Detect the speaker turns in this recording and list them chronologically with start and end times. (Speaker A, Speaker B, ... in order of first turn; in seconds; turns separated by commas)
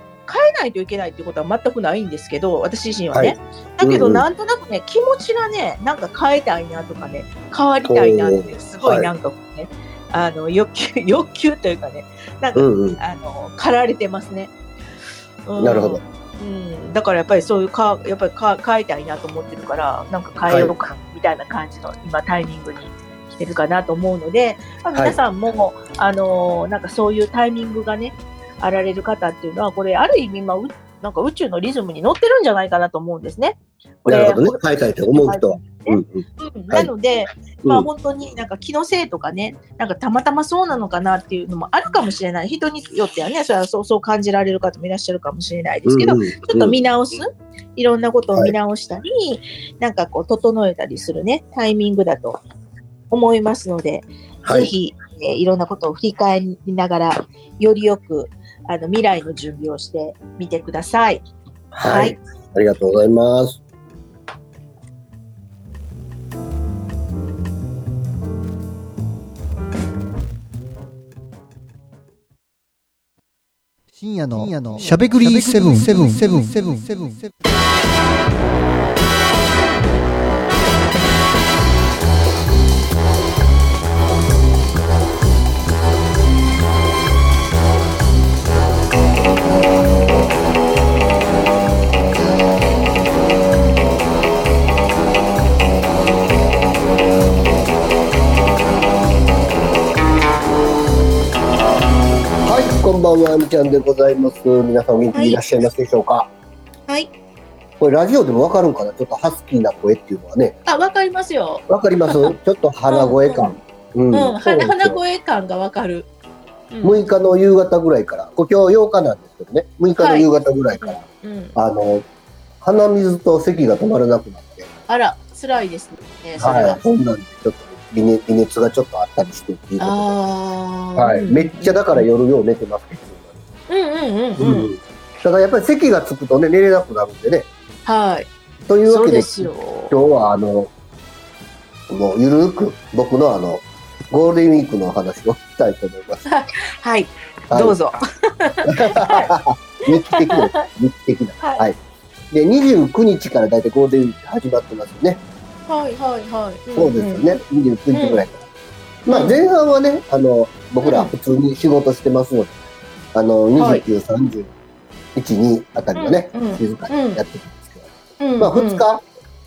Speaker A: 0.3-14.5, Speaker B: 3.1-4.2, Speaker B: 7.9-9.1, Speaker B: 12.5-13.0, Speaker A: 15.4-52.4, Speaker B: 15.6-16.0, Speaker B: 20.5-20.7, Speaker B: 34.1-36.9, Speaker B: 37.6-37.9, Speaker B: 45.9-46.8, Speaker A: 53.1-61.2, Speaker B: 54.4-54.7, Speaker B: 61.8-63.6, Speaker A: 61.8-62.1, Speaker C: 73.9-77.3, Speaker B: 102.4-106.3, Speaker A: 105.1-105.4, Speaker B: 107.8-110.6, Speaker A: 110.7-112.4, Speaker B: 111.7-115.0, Speaker A: 112.9-113.6, Speaker A: 114.1-116.1, Speaker A: 116.7-117.0, Speaker B: 116.8-121.0, Speaker A: 120.0-120.3, Speaker A: 120.8-121.5, Speaker B: 121.5-122.0, Speaker B: 122.6-124.7, Speaker A: 124.9-126.8, Speaker B: 126.4-130.1, Speaker A: 129.8-132.1, Speaker B: 130.9-133.3, Speaker A: 133.7-134.7, Speaker B: 134.4-137.5, Speaker A: 137.9-138.3, Speaker B: 138.7-140.7, Speaker A: 138.9-139.9, Speaker B: 141.9-146.2, Speaker A: 146.2-149.3, Speaker B: 147.5-147.8, Speaker B: 148.7-151.8, Speaker A: 150.0-150.7, Speaker B: 152.3-155.2, Speaker A: 155.7-157.3, Speaker B: 156.8-158.4, Speaker A: 157.9-158.2, Speaker B: 159.0-162.5, Speaker A: 159.1-159.4, Speaker A: 160.8-161.1, Speaker B: 163.1-164.5, Speaker A: 163.6-163.8, Speaker B: 165.1-167.9, Speaker A: 165.9-167.2, Speaker A: 168.2-168.8, Speaker B: 168.4-169.0